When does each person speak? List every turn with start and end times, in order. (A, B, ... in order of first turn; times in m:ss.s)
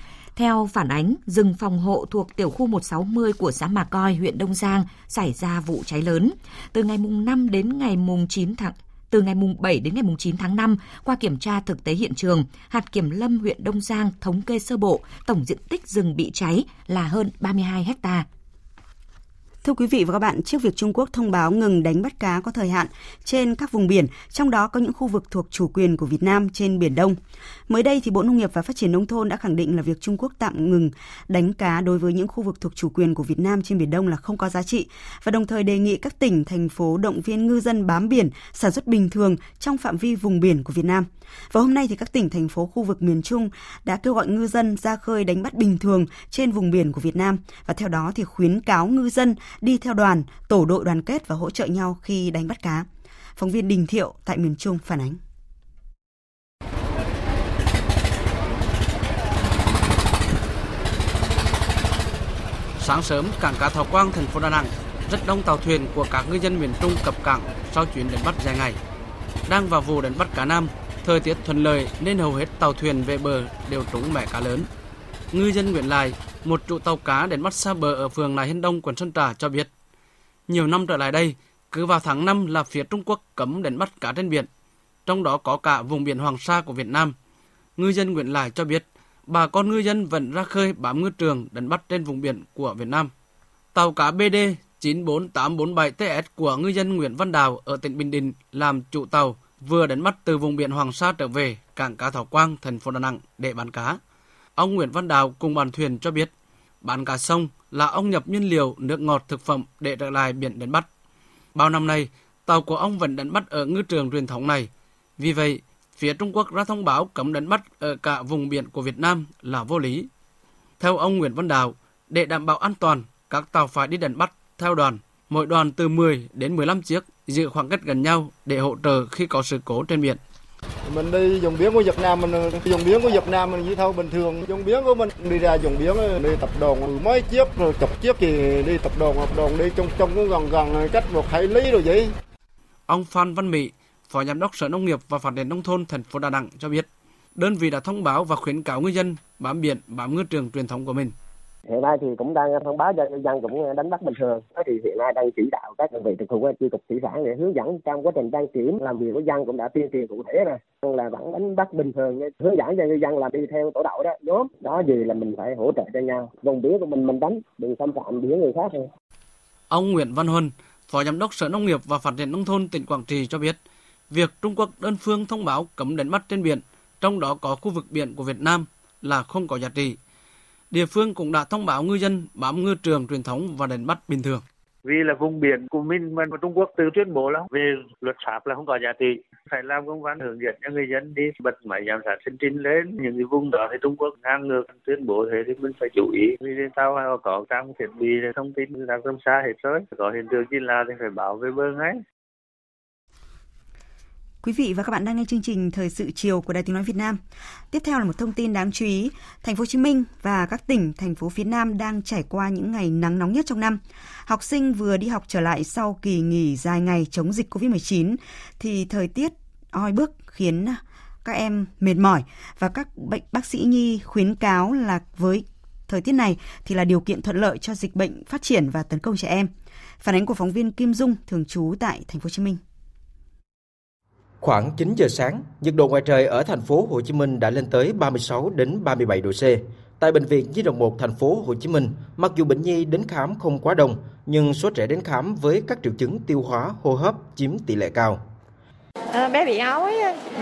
0:00.4-0:18.2 A
0:19.6-0:55.2 B
1:02.8-1:08.8 C
1:09.5-1:14.7 C
1:15.3-1:19.7 C
1:20.5-1:24.5 C
1:25.0-1:27.1 C
1:27.8-1:33.1 C
1:33.7-1:44.0 C
1:44.6-1:46.3 C
1:46.8-1:50.9 C
1:51.6-2:00.1 C
2:00.8-2:10.2 C
2:10.9-2:18.2 D
2:18.8-2:19.2 D
2:19.8-2:20.2 D
2:22.9-2:31.1 C
2:31.7-2:48.8 E
2:49.7-2:53.6 C
2:54.1-3:00.0 C
3:00.7-3:04.4 C
3:04.9-3:21.7 F
3:24.4-3:49.5 B
3:50.0-3:52.6 B
3:54.4-4:08.2 G